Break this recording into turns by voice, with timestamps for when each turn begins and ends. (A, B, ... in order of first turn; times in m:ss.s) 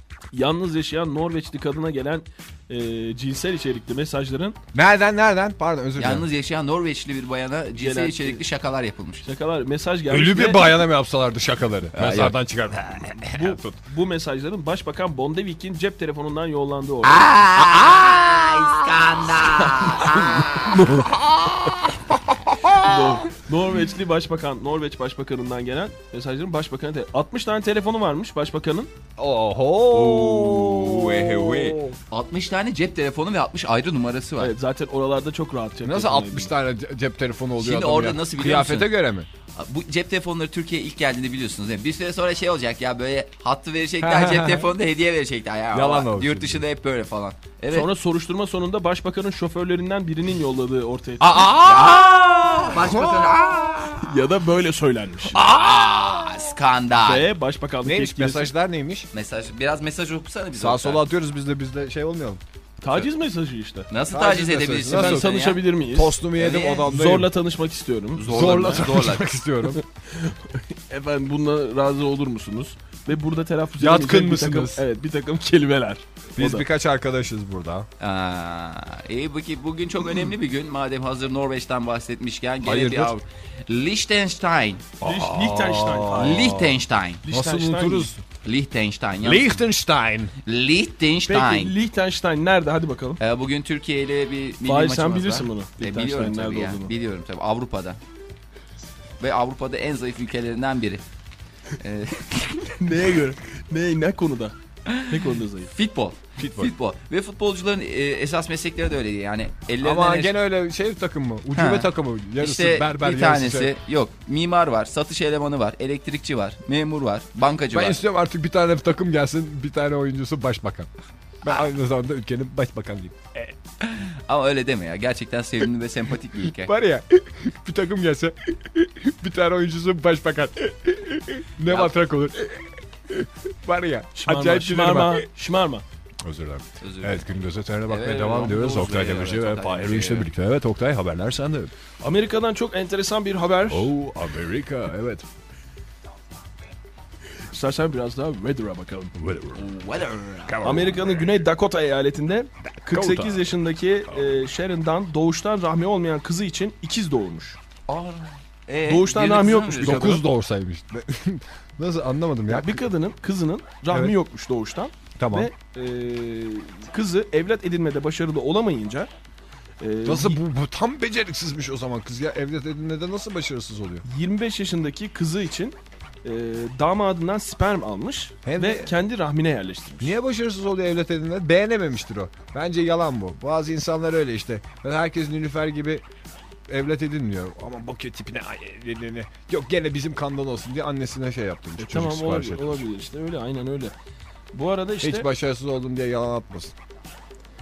0:00.3-0:04.6 A
0:04.7-0:06.2 B
0:06.0-0:09.2 C
0:07.7-0:08.4 A
0:09.2-0:10.8 A
0:10.1-0:13.8 B
0:11.9-0:12.4 C
0:13.3-0:17.3 A
0:17.0-0:20.8 C
0:19.4-0:21.1 A
0:20.9-0:21.8 B
0:22.3-0:22.8 B
0:22.8-0:28.9 A
0:29.2-0:32.0 B
0:29.9-0:31.0 A
0:31.1-0:34.5 C
0:34.4-0:36.5 A
0:35.8-0:39.3 B
0:37.6-0:38.9 C
0:39.5-0:47.9 C
0:44.0-0:44.7 B
0:45.7-0:46.6 B
0:47.7-0:51.5 A
0:51.2-0:54.0 B
0:51.6-0:53.9 C
0:54.0-0:55.6 A
0:55.4-0:57.3 C
0:55.4-0:56.3 B
0:57.0-0:58.5 A
0:57.8-0:59.1 B
0:59.1-1:01.0 C
1:00.5-1:02.4 B
1:02.8-1:03.9 A
1:03.9-1:05.6 C
1:04.1-1:05.3 B
1:04.8-1:06.2 A
1:05.9-1:07.3 B
1:06.4-1:06.9 C
1:06.8-1:08.9 A
1:08.2-1:09.3 C
1:08.3-1:09.8 B
1:09.7-1:16.6 A
1:13.8-1:14.8 B
1:16.4-1:17.9 B
1:18.0-1:24.9 C
1:22.6-1:23.2 B
1:25.0-1:26.7 B
1:25.0-1:26.6 A
1:26.2-1:27.2 C
1:27.2-1:28.1 A
1:27.3-1:28.2 B
1:28.4-1:29.6 C
1:29.2-1:30.3 B
1:30.4-1:31.7 C
1:31.2-1:33.2 A
1:33.2-1:38.0 C
1:34.6-1:36.9 A
1:39.2-1:41.0 C
1:41.8-1:42.8 C
1:42.8-1:44.6 A
1:44.9-1:50.3 C
1:45.1-1:45.7 A
1:46.4-1:46.7 B
1:49.8-1:53.7 B
1:51.5-1:58.0 C
1:57.7-2:00.9 B
2:01.4-2:03.3 B
2:03.8-2:06.7 C
2:06.6-2:15.3 B
2:11.7-2:11.9 C
2:14.1-2:15.8 A
2:16.2-2:21.7 B
2:16.8-2:17.3 C
2:17.9-2:20.3 C
2:18.3-2:18.6 A
2:22.0-2:23.9 A
2:23.6-2:25.2 B
2:27.5-2:29.1 A
2:29.2-2:29.6 B
2:29.5-2:31.0 C
2:30.4-2:31.2 B
2:30.6-2:37.6 A
2:32.8-2:33.5 B
2:37.9-2:40.2 C
2:38.8-2:40.2 A
2:39.8-2:42.8 B
2:42.5-2:49.1 A
2:43.9-2:44.2 B
2:45.2-2:45.5 B
2:49.8-2:50.4 A
2:50.0-2:54.0 B
2:54.0-3:00.2 A
2:58.4-2:58.9 B
3:00.0-3:06.0 B
3:06.7-3:12.8 B
3:11.8-3:13.9 A
3:14.5-3:15.3 A
3:15.0-3:16.7 B